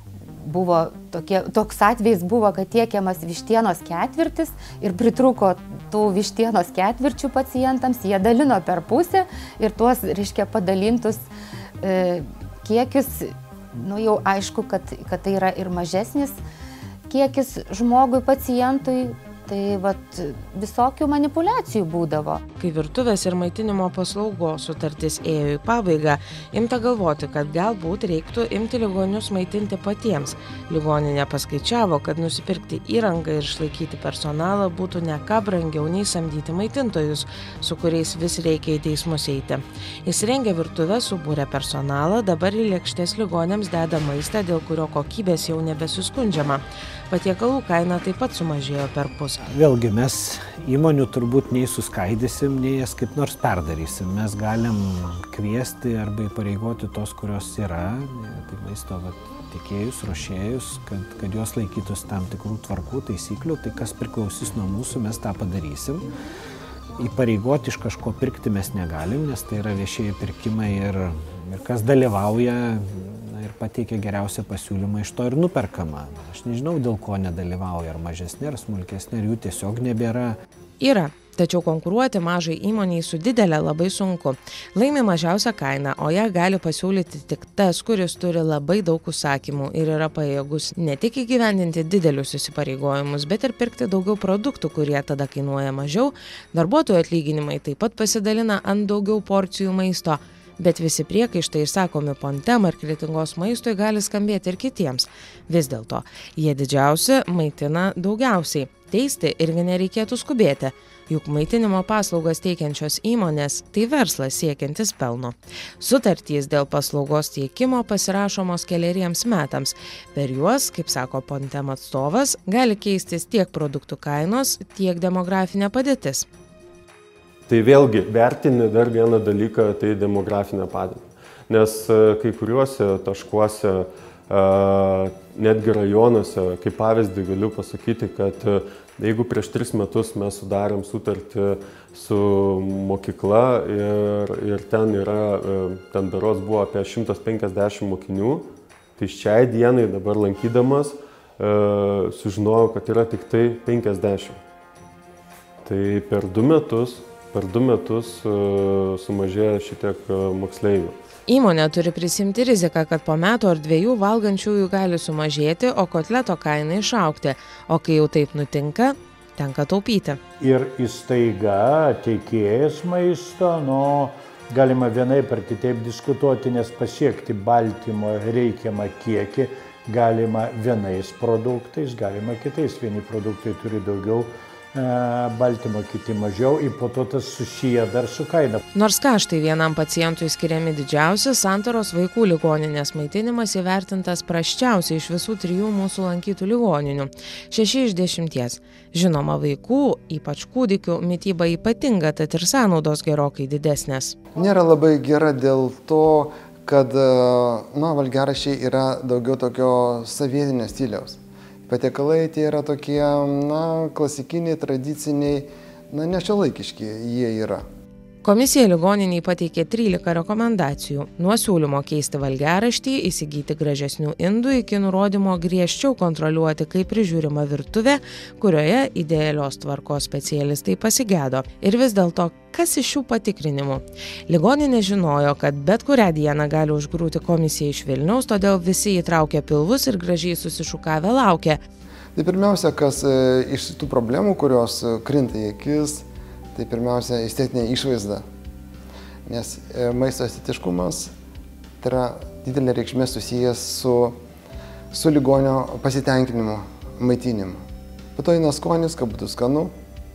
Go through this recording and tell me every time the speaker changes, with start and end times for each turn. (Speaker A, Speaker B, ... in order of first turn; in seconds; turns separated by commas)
Speaker A: 0.3-11.2, Speaker A: 11.8-16.4, Speaker A: 17.1-22.4, Speaker B: 22.6-49.4, Speaker C: 49.4-66.1, Speaker C: 67.0-80.3, Speaker B: 80.8-126.2, Speaker D: 127.5-148.4, Speaker D: 149.0-154.4, Speaker D: 155.6-161.0, Speaker B: 161.3-170.2, Speaker E: 170.4-188.6, Speaker B: 188.7-204.2, Speaker F: 204.3-217.6, Speaker B: 218.2-241.6, Speaker F: 242.2-246.0, Speaker F: 246.5-248.2, Speaker F: 249.3-251.1, Speaker F: 251.8-254.2, Speaker F: 254.9-257.6, Speaker F: 258.1-259.7